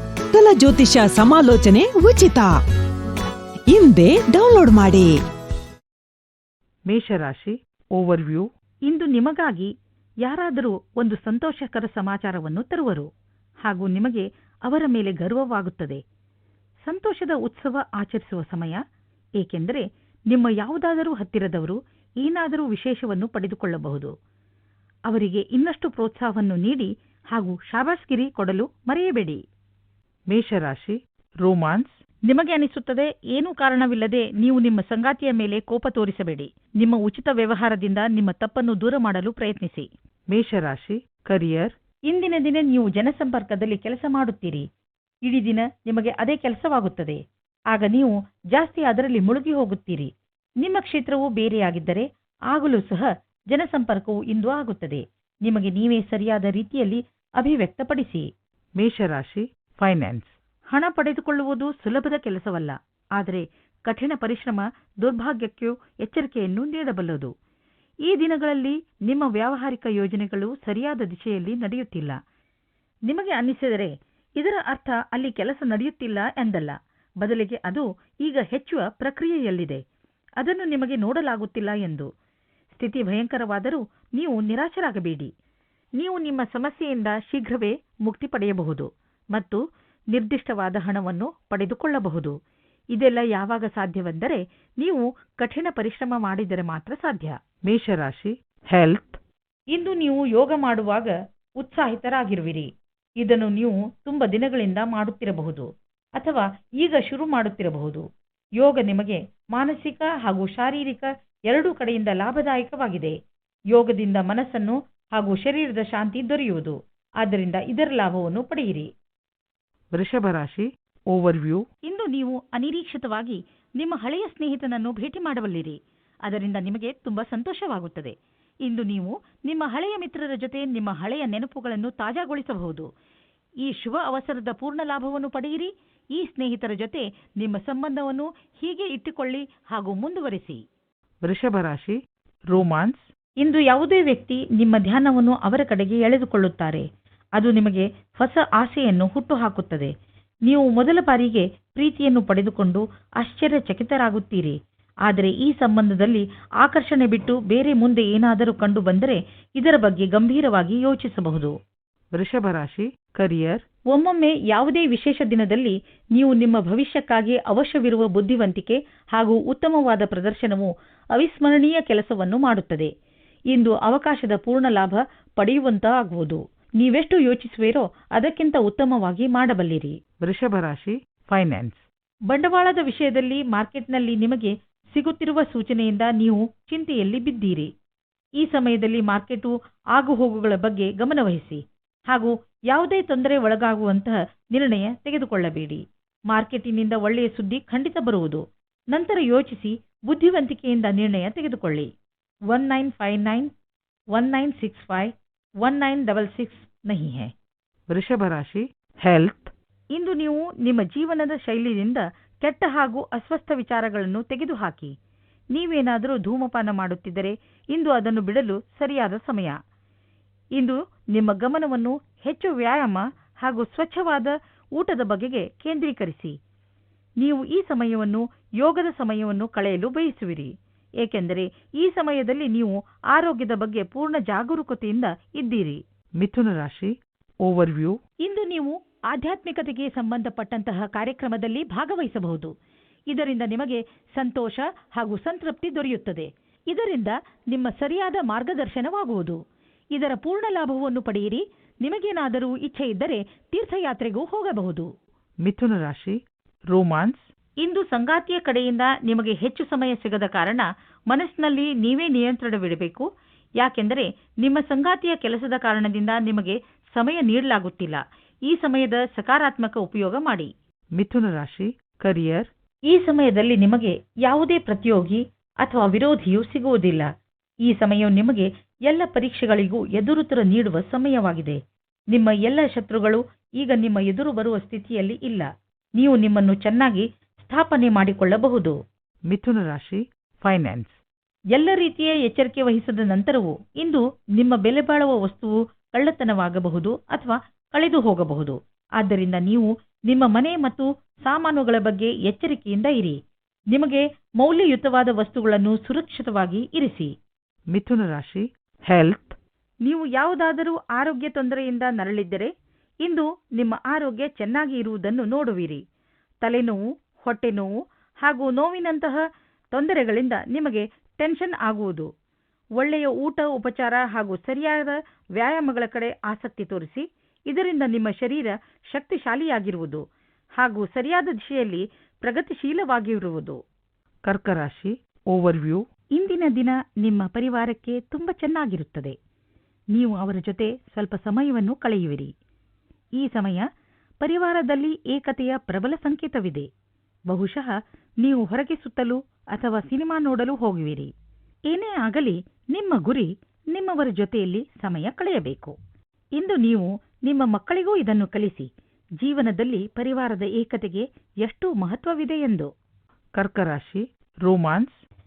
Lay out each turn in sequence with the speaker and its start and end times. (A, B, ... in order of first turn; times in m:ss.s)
0:00.3-0:02.6 A
0:03.7-0:05.2 A
0:06.9-0:08.4 B
0:08.0-0:09.7 C
0:10.2-0:13.1 C
0:13.6-0:16.0 C
0:16.8-0:18.8 C
0:19.4-0:24.1 C
0:25.1-0:29.4 C
0:30.3-0:30.9 B
0:31.4-0:44.6 C
0:40.6-0:41.0 B
0:45.2-0:47.2 C
0:47.7-0:50.1 C
0:50.6-0:58.3 C
0:58.8-1:07.3 C
1:08.1-1:12.2 C
1:13.1-1:19.8 C
1:20.4-1:22.1 C
1:22.7-1:25.3 C
1:26.0-1:29.6 C
1:30.1-1:32.4 C
1:32.9-1:37.4 C
1:37.7-1:38.9 B
1:38.8-1:39.2 C
1:39.7-1:42.7 C
1:43.2-1:48.0 C
1:48.6-1:53.1 C
1:53.7-1:58.9 C
2:00.0-2:12.9 C
2:00.4-2:00.6 B
2:13.6-2:20.6 C
2:21.2-2:21.9 C
2:21.3-2:21.9 B
2:22.5-2:26.8 C
2:22.7-2:22.9 B
2:27.4-2:29.9 C
2:30.5-2:41.5 C
2:42.2-2:52.9 C
2:42.6-2:42.8 B
2:53.5-3:07.7 C
3:08.4-3:21.9 C
3:22.5-3:23.5 C
3:24.1-3:25.1 C
3:25.6-3:27.3 C
3:27.9-3:34.9 C
3:27.9-3:28.6 B
3:35.5-3:39.6 C
3:40.6-3:46.4 C
3:47.2-3:56.8 C
3:56.2-3:56.9 B
3:57.5-4:02.5 C
3:57.5-3:57.9 B
4:03.1-4:09.4 C
4:09.9-4:14.9 C
4:15.5-4:16.1 C
4:15.6-4:16.1 B
4:16.7-4:23.1 C
4:23.6-4:37.1 C
4:31.0-4:31.7 B
4:37.6-4:41.6 C
4:42.1-4:48.8 C
4:49.3-4:50.0 B
4:49.5-4:49.9 C
4:50.4-4:50.9 C
4:51.5-5:03.2 C
5:03.7-5:07.1 C
5:07.7-5:08.4 C
5:07.8-5:09.2 B
5:08.9-5:09.3 C
5:09.8-5:12.5 C
5:13.0-5:15.8 C
5:16.4-5:19.2 C
5:19.7-5:22.1 C
5:22.8-5:30.0 C
5:30.6-5:33.6 C
5:34.3-5:39.2 C
5:35.3-5:35.8 B
5:39.9-5:42.3 C
5:43.2-5:43.7 C
5:44.2-5:46.7 C
5:47.3-5:51.1 C
5:51.7-5:55.8 C
5:56.4-5:58.7 C
5:59.2-6:02.7 C
6:03.4-6:04.9 C
6:03.5-6:04.0 B